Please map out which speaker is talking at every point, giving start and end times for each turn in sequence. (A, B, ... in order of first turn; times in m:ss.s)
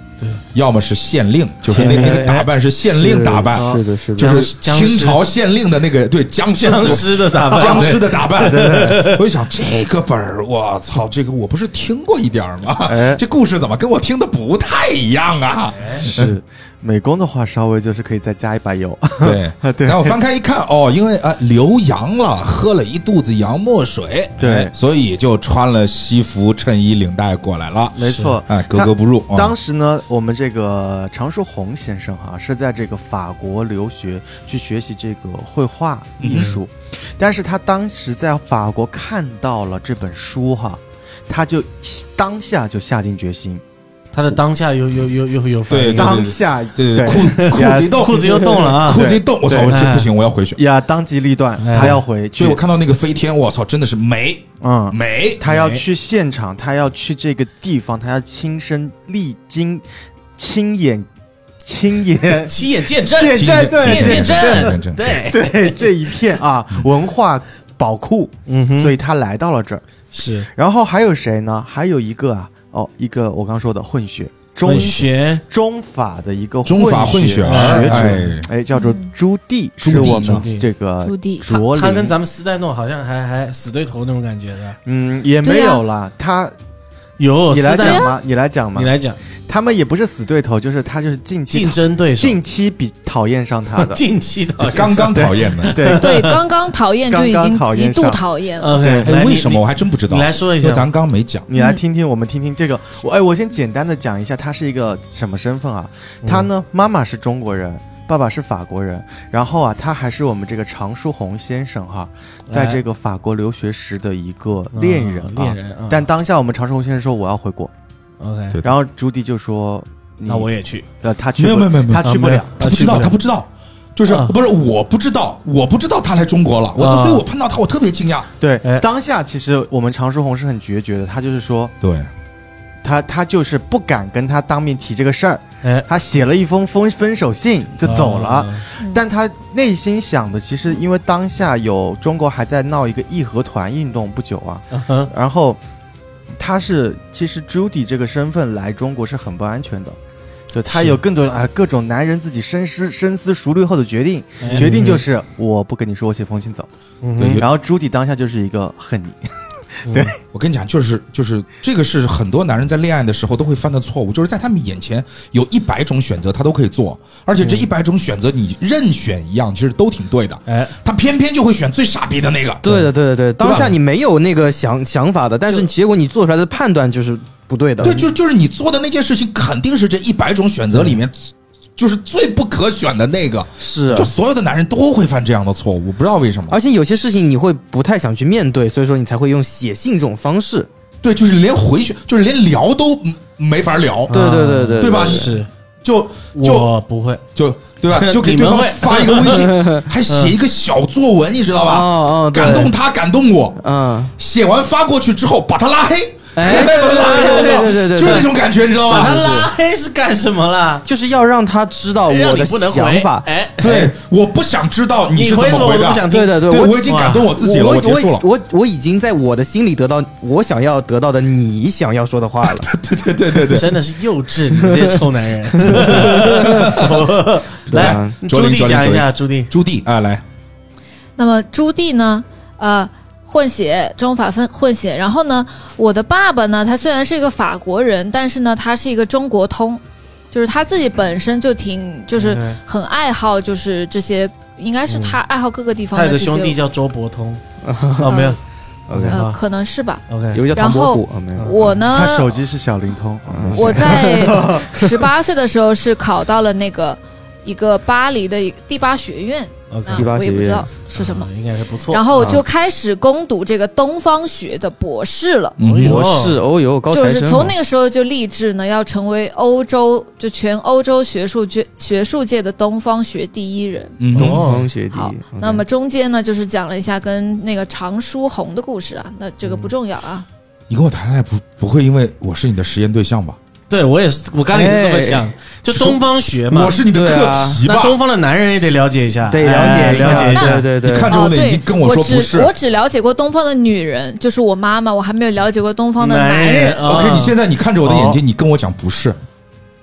0:00.5-0:16.3 A
0:01.7-0:02.4 B
0:01.7-0:04.4 C
0:03.5-0:03.8 D
0:04.2-0:05.2 B
0:06.6-0:09.2 B
0:07.5-0:09.0 D
0:12.8-0:13.2 D
0:15.7-0:16.0 B
0:16.0-0:20.2 D
0:19.2-0:29.5 A
0:24.4-0:24.7 D
0:27.9-0:43.6 D
0:28.0-0:28.4 B
0:36.2-0:36.5 A
0:36.3-0:36.6 B
0:44.1-0:46.3 B
0:45.7-0:50.6 A
0:45.9-0:49.8 D
0:47.2-0:49.0 B
0:49.7-0:50.1 B
0:50.6-0:52.6 D
0:51.6-0:52.0 B
0:51.7-0:55.4 A
0:54.6-0:59.8 D
0:55.4-0:55.8 B
1:00.4-1:01.1 D
1:01.6-1:02.6 D
1:02.5-1:05.8 B
1:03.1-1:09.8 D
1:03.3-1:05.0 A
1:08.5-1:09.0 B
1:10.1-1:10.5 B
1:10.5-1:22.2 D
1:14.6-1:15.4 B
1:16.6-1:18.5 A
1:17.4-1:18.3 B
1:18.7-1:19.1 E
1:19.8-1:20.4 A
1:19.9-1:20.7 B
1:21.0-1:21.5 E
1:21.4-1:24.8 B
1:24.8-1:26.5 D
1:25.4-1:25.8 E
1:27.2-1:28.1 B
1:27.5-1:28.9 D
1:27.7-1:28.1 E
1:28.7-1:29.2 B
1:29.5-1:34.0 D
1:31.5-1:32.4 B
1:33.8-1:36.4 B
1:34.6-1:35.8 A
1:35.1-1:36.2 D
1:36.0-1:38.8 E
1:37.1-1:38.2 D
1:38.6-1:40.8 B
1:38.7-1:39.1 D
1:39.0-1:41.5 A
1:41.5-1:57.7 D
1:41.5-1:41.8 E
1:46.2-1:46.5 B
1:52.5-1:52.8 B
1:54.7-1:56.1 B
1:58.2-1:58.6 B
1:58.6-2:00.5 D
2:00.3-2:00.9 B
2:01.0-2:02.7 D
2:01.4-2:08.3 A
2:02.0-2:03.2 B
2:04.0-2:04.4 B
2:06.8-2:07.2 B
2:08.4-2:11.7 D
2:11.8-2:12.1 A
2:12.8-2:25.6 D
2:17.8-2:18.6 B
2:24.7-2:25.1 B
2:26.4-2:30.0 D
2:30.5-2:36.7 D
2:30.7-2:31.0 B
2:34.4-2:35.0 B
2:34.5-2:35.0 C
2:37.0-2:37.4 B
2:37.2-2:37.4 A
2:37.4-2:40.2 D
2:39.8-2:40.1 B
2:40.3-2:52.7 A
2:50.5-2:50.7 B
2:52.6-2:58.0 C
2:53.4-2:53.7 A
2:57.8-3:01.1 A
3:01.8-3:06.6 A
3:03.6-3:04.1 C
3:06.5-3:10.7 C
3:11.0-3:14.2 A
3:14.1-3:15.5 B
3:14.1-3:15.3 C
3:14.8-3:16.7 A
3:16.3-3:17.2 B
3:17.3-3:23.6 A
3:17.9-3:19.5 B
3:19.3-3:19.8 C
3:20.1-3:20.3 B
3:21.6-3:22.7 C
3:23.6-3:24.1 C
3:24.2-3:29.3 A
3:26.4-3:28.3 C
3:26.4-3:28.3 B
3:28.8-3:30.8 B
3:28.9-3:29.5 C
3:30.8-3:33.9 C
3:32.1-3:33.8 B
3:33.6-3:38.2 A
3:35.1-3:37.3 B
3:36.1-3:42.7 C
3:42.5-3:43.8 A
3:43.5-3:49.5 B
3:44.7-3:44.9 C
3:45.6-3:46.8 C
3:45.7-3:47.0 A
3:47.7-3:50.2 A
3:47.7-3:48.1 C
3:51.2-4:06.6 E
4:02.2-4:02.6 B
4:04.9-4:05.2 B
4:05.9-4:07.4 B
4:07.6-4:08.2 C
4:08.0-4:08.4 B
4:08.0-4:08.4 E
4:08.9-4:09.2 C
4:08.9-4:09.4 B
4:09.1-4:12.4 E
4:10.1-4:10.4 B
4:10.3-4:11.5 C
4:11.4-4:11.8 B
4:11.9-4:14.8 D
4:13.3-4:14.5 C
4:13.5-4:21.3 E
4:19.7-4:20.1 B
4:19.9-4:20.7 C
4:20.9-4:22.4 B
4:21.9-4:25.6 E
4:25.6-4:26.0 A
4:25.6-4:26.4 B
4:25.8-4:27.5 C
4:26.9-4:34.0 E
4:34.0-4:34.5 A
4:34.1-4:34.6 B
4:34.2-4:35.6 C
4:34.9-4:40.2 E
4:40.7-4:43.4 A
4:43.7-4:46.8 B
4:44.5-4:45.3 C
4:46.5-4:48.0 A
4:46.9-4:47.6 C
4:47.6-4:50.6 B
4:49.3-4:51.1 C
4:49.6-4:50.1 D
4:50.3-4:50.6 E
4:50.8-4:52.5 A
4:51.1-4:56.9 E
4:56.0-4:57.4 B
4:56.8-4:59.2 A
4:57.8-4:58.2 D